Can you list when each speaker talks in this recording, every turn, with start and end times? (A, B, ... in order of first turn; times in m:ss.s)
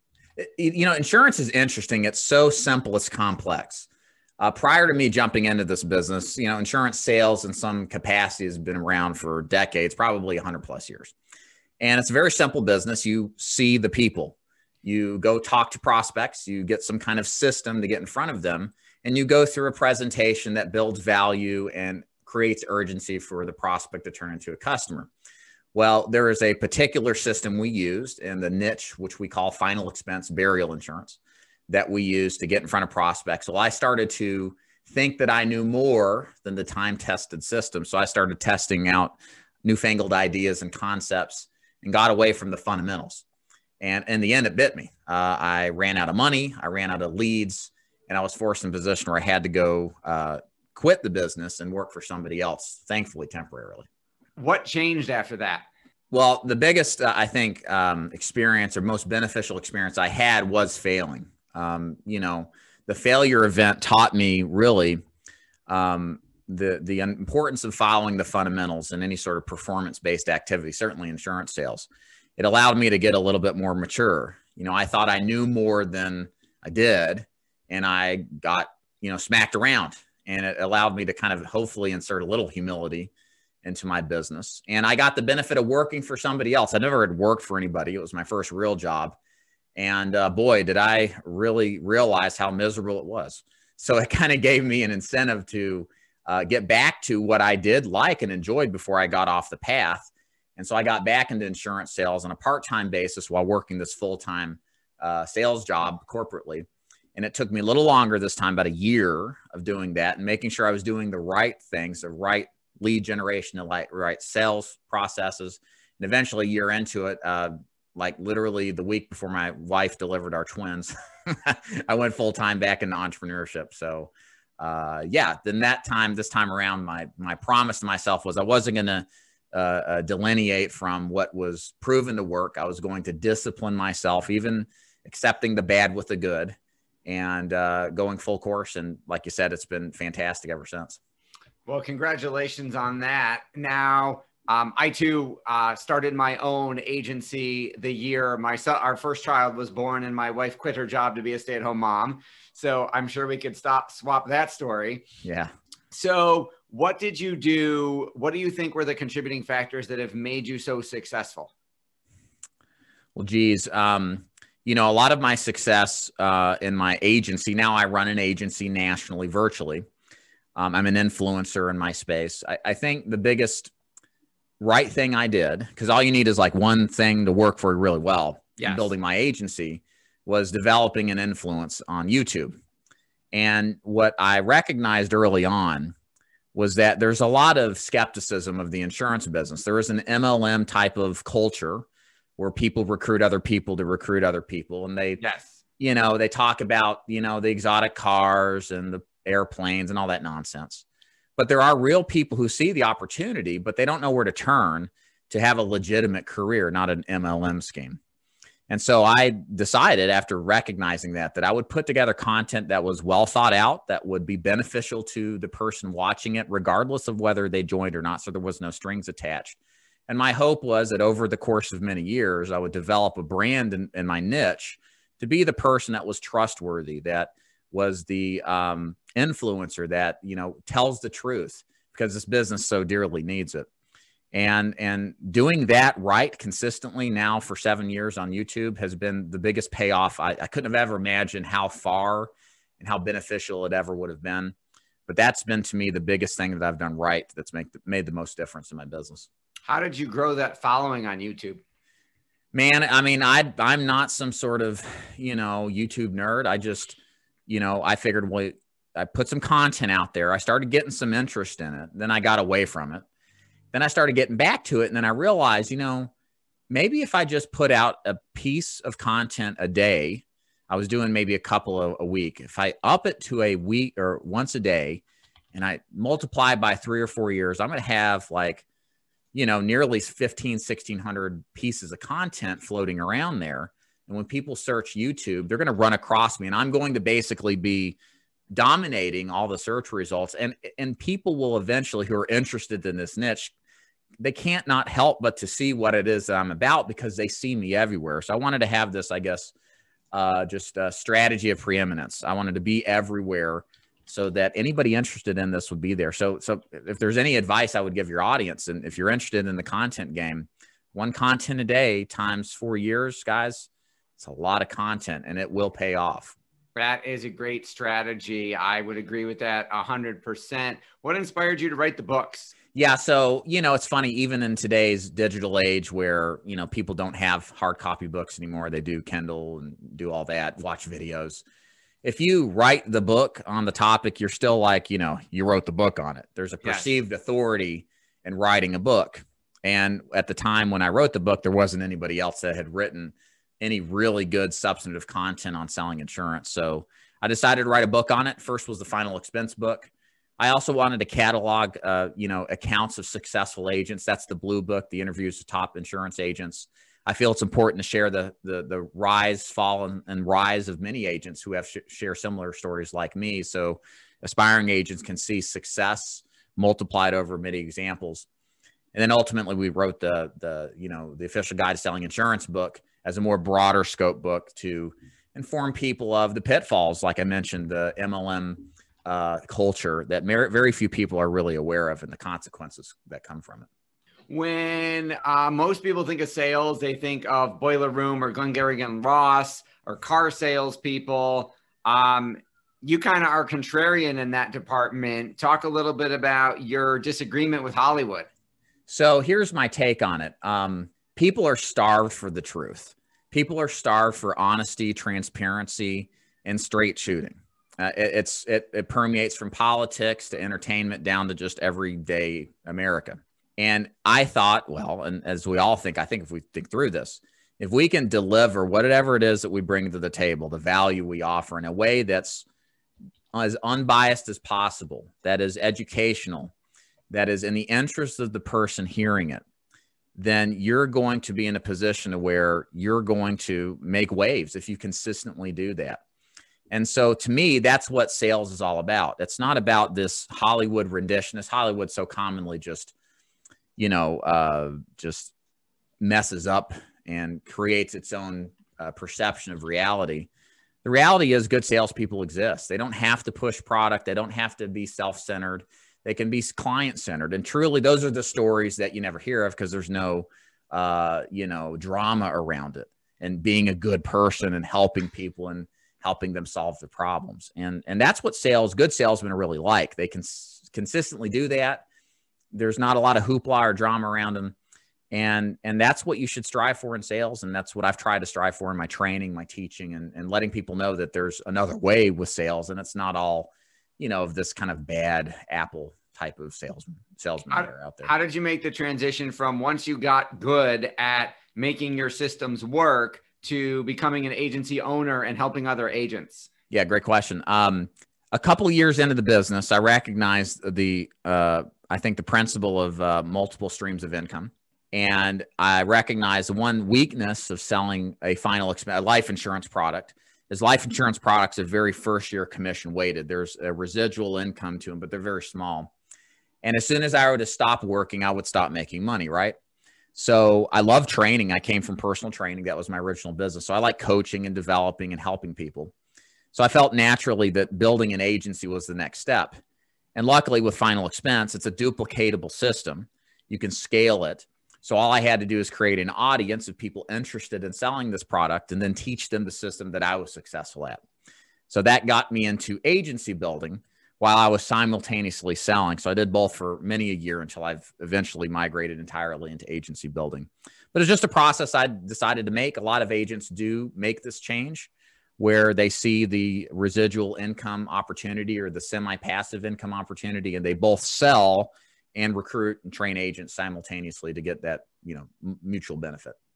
0:00.4-0:03.9 A
0:04.4-0:11.1 A
0:11.8-0:25.1 A
0:25.7-0:43.2 A
0:43.8-0:53.9 A
0:54.4-0:55.7 B
0:56.1-1:05.0 A
1:05.7-1:23.1 A
1:23.6-1:29.2 A
1:29.8-2:21.0 A
2:21.7-2:35.0 B
2:35.2-2:35.5 A
2:35.9-2:41.5 B
2:43.1-2:49.8 A
2:50.6-2:53.7 A
2:54.6-3:02.6 A
2:58.6-2:58.9 B
3:03.3-3:05.9 A
3:06.5-3:11.8 A
3:12.4-3:15.2 A
3:15.2-3:15.6 B
3:15.8-3:20.8 A
3:21.4-3:28.0 A
3:28.7-3:53.7 A
3:54.3-4:04.5 A
4:05.1-4:09.3 A
4:09.6-4:11.6 B
4:12.5-4:23.0 A
4:23.7-4:26.1 A
4:26.7-4:35.0 A
4:35.5-4:38.6 A
4:39.3-4:48.0 A
4:48.5-4:53.5 A
4:54.2-4:59.5 A
5:00.1-5:13.7 A
5:14.2-5:16.4 A
5:16.7-5:22.5 B
5:22.7-5:31.4 A
5:32.0-6:08.3 A
5:36.6-5:36.9 B
6:08.9-6:23.7 A
6:24.3-6:38.3 B
6:38.9-7:02.4 A
7:03.3-7:06.5 A
7:07.1-7:09.4 A
7:10.2-7:16.0 A
7:16.7-7:22.9 A
7:23.8-7:25.3 A
7:26.0-7:30.3 A
7:30.8-7:51.8 A
7:52.5-7:54.5 A
7:55.1-8:08.1 A
8:07.5-8:16.5 B
8:16.7-8:35.9 A
8:36.6-8:39.6 A
8:40.1-8:45.9 A
8:46.5-8:49.6 A
8:50.1-9:01.0 A
9:01.7-9:26.3 A